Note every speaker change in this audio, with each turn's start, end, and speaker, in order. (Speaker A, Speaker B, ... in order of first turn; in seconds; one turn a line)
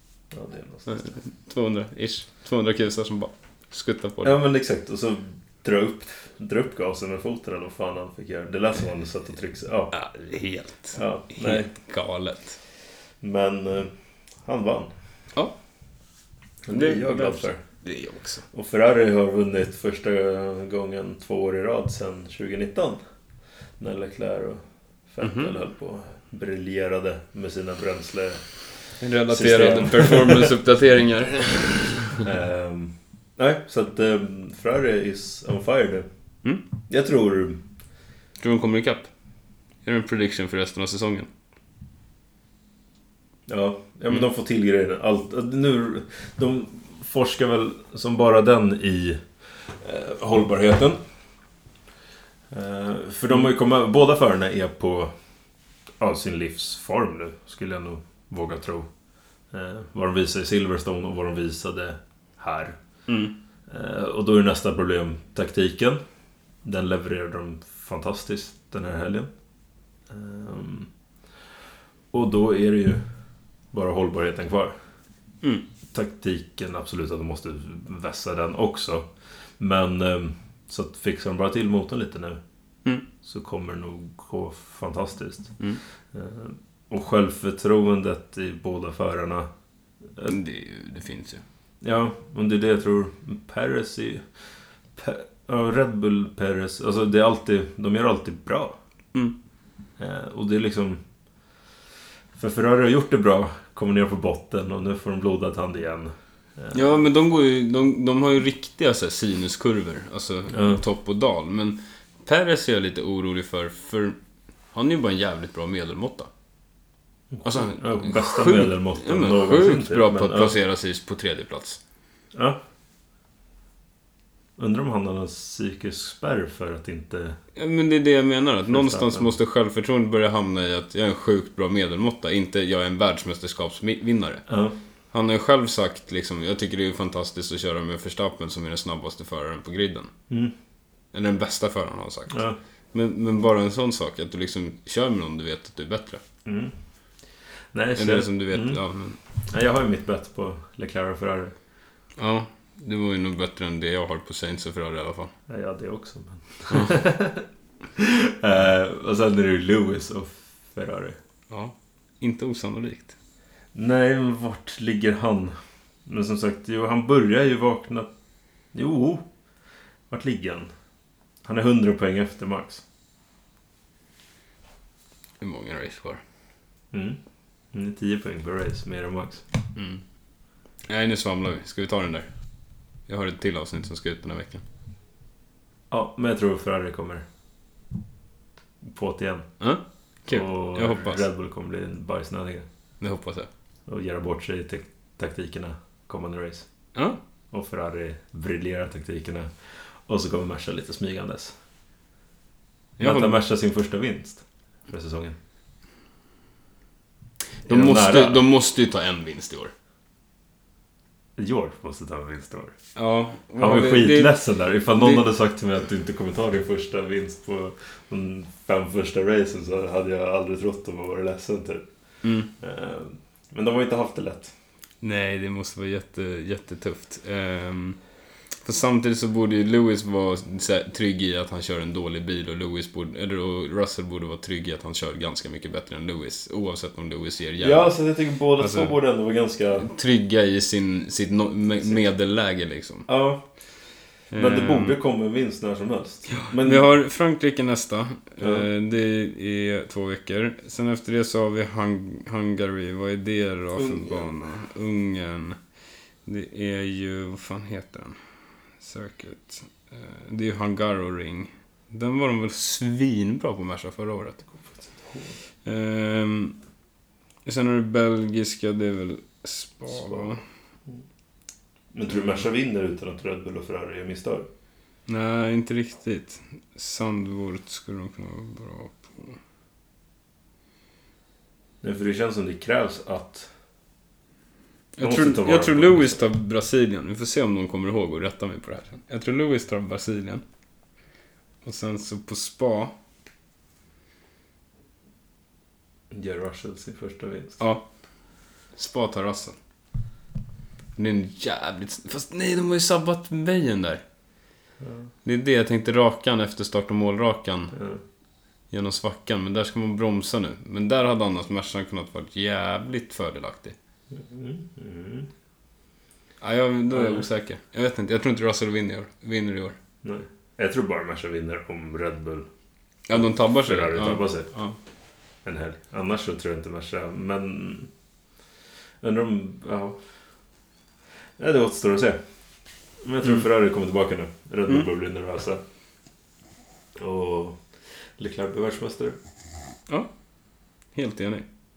Speaker A: 0.3-1.1
Speaker B: 0.9-4.4
Speaker A: 4.2-9.9
Speaker B: 9.9-12.6
Speaker A: 10.9-11.7
Speaker A: 13.2-14.9
Speaker A: 16.6-17.6
Speaker B: 16.7-18.4
Speaker A: 18.5-23.0
Speaker A: 23.8-28.5
Speaker B: 25.2-25.5
Speaker B: 29.0-32.2
Speaker A: 29.3-30.6
Speaker A: 32.2-36.1
Speaker A: 36.9-37.6
Speaker B: 38.4-39.1
Speaker B: 39.8-41.3
Speaker A: 43.5-51.0
Speaker A: 52.5-55.1
Speaker A: 56.0-58.9
Speaker A: 59.5-62.8
Speaker B: 63.1-63.3
Speaker A: 63.7-66.0
Speaker A: 66.6-69.3
Speaker A: 70.1-70.9
Speaker A: 72.1-73.0
Speaker A: 73.7-74.7
Speaker A: 75.9-82.4
Speaker A: 83.2-85.5
Speaker A: 86.1-89.5
Speaker B: 90.2-91.4
Speaker A: 91.8-94.2
Speaker A: 95.0-98.8
Speaker A: 100.0-101.0
Speaker A: 102.3-106.8
Speaker B: 106.7-114.2
Speaker A: 110.5-110.8
Speaker B: 114.7-116.3
Speaker A: 117.3-120.5
Speaker B: 117.4-121.8
Speaker A: 122.3-122.6
Speaker A: 124.6-127.4
Speaker B: 127.5-134.4
Speaker A: 128.7-129.3
Speaker A: 134.5-134.7
Speaker B: 135.1-140.1
Speaker B: 141.1-146.2
Speaker A: 142.3-142.6
Speaker A: 146.4-146.7
Speaker A: 147.7-148.8
Speaker B: 147.9-149.2
Speaker A: 149.5-151.5
Speaker B: 152.2-155.3
Speaker A: 155.5-161.2
Speaker B: 161.5-163.2
Speaker A: 163.7-165.5
Speaker A: 166.1-168.1
Speaker A: 168.7-169.2
Speaker A: 170.1-170.7
Speaker A: 171.4-172.8
Speaker B: 175.4-176.2
Speaker A: 176.9-177.2
Speaker A: 177.7-179.4
Speaker B: 179.8-180.0
Speaker B: 180.9-182.3
Speaker B: 183.1-184.6
Speaker A: 185.9-187.2
Speaker A: 188.8-189.5
Speaker B: 189.6-191.2
Speaker A: 190.3-192.7
Speaker B: 193.0-193.5
Speaker A: 193.9-196.7
Speaker A: 197.5-201.5
Speaker B: 203.0-203.3
Speaker A: 203.0-205.3
Speaker B: 207.6-209.7
Speaker A: 207.7-208.4
Speaker A: 211.4-212.7
Speaker B: 212.9-214.4
Speaker A: 213.6-221.9
Speaker B: 214.9-215.2
Speaker B: 222.2-222.5
Speaker A: 222.6-224.5
Speaker B: 225.0-228.0
Speaker B: 228.6-237.9
Speaker A: 237.6-239.9
Speaker B: 238.6-238.9
Speaker B: 239.8-243.1
Speaker A: 243.1-243.5
Speaker B: 244.3-244.9
Speaker A: 244.3-246.8
Speaker B: 246.3-255.6
Speaker A: 248.4-248.7
Speaker A: 253.8-254.3
Speaker B: 256.2-258.2
Speaker B: 258.8-264.4
Speaker A: 264.6-265.4
Speaker B: 265.6-266.6
Speaker B: 267.4-270.4
Speaker A: 269.9-270.3
Speaker A: 271.9-274.5
Speaker B: 275.1-279.4
Speaker A: 281.8-283.5
Speaker B: 285.0-290.4
Speaker A: 285.0-286.2
Speaker B: 291.6-292.9
Speaker A: 296.1-297.6
Speaker B: 297.6-297.9
Speaker B: 298.8-299.6
Speaker B: 301.0-304.0
Speaker A: 304.8-305.1
Speaker B: 305.2-307.8
Speaker A: 307.7-308.0
Speaker B: 308.7-313.7
Speaker A: 314.1-315.3
Speaker B: 316.4-319.8
Speaker A: 316.9-317.2
Speaker A: 320.0-322.5
Speaker B: 323.1-324.8
Speaker A: 323.1-324.5
Speaker A: 325.4-327.9
Speaker A: 329.0-330.0
Speaker A: 331.4-332.2
Speaker A: 333.0-335.6
Speaker A: 337.0-337.6
Speaker A: 338.2-339.2
Speaker B: 340.9-341.5